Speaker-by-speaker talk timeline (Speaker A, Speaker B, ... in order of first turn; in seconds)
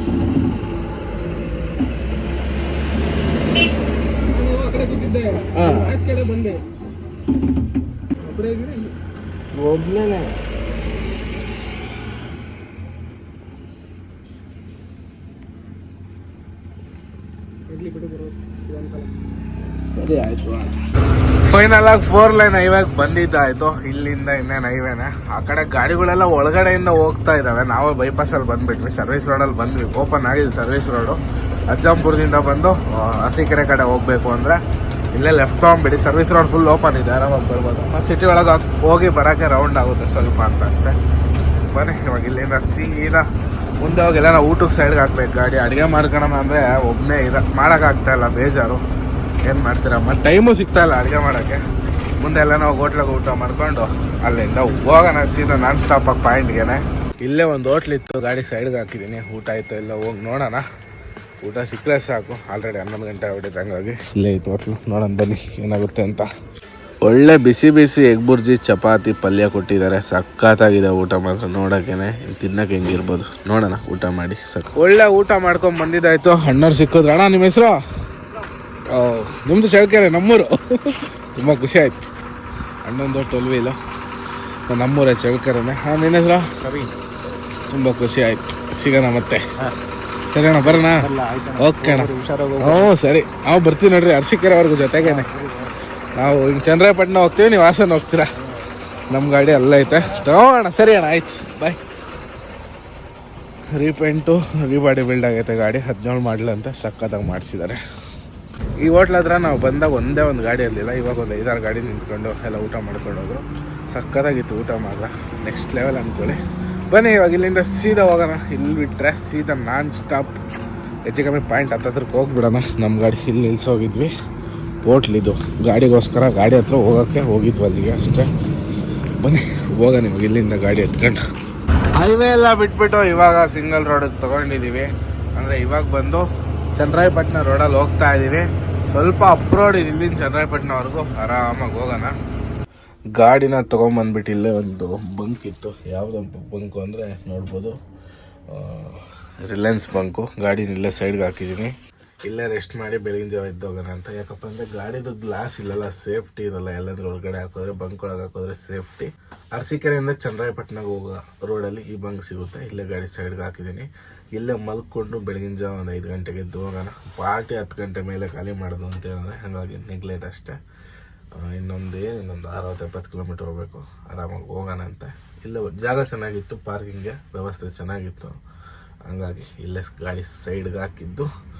Speaker A: 4.3-5.5, 6.0-6.6, 8.2-8.9, 17.7-19.1, 90.7-92.9, 95.0-95.7
Speaker B: 5.5-6.0, 9.6-10.4, 19.9-20.8, 21.4-31.2, 31.7-34.6, 35.1-41.0, 41.7-43.3, 43.8-48.8, 49.5-51.6, 52.2-60.6, 61.4-66.3, 67.0-77.8, 78.9-82.1, 82.8-83.8, 84.7-86.5, 87.7-89.5, 90.3-95.3, 96.2-98.3, 99.1-101.8, 103.8-107.8, 108.8-120.4, 121.1-124.1, 124.8-128.3, 129.2-131.2, 131.9-142.2, 143.1-147.8, 148.5-151.7, 152.2-170.6, 171.3-178.4, 179.1-181.3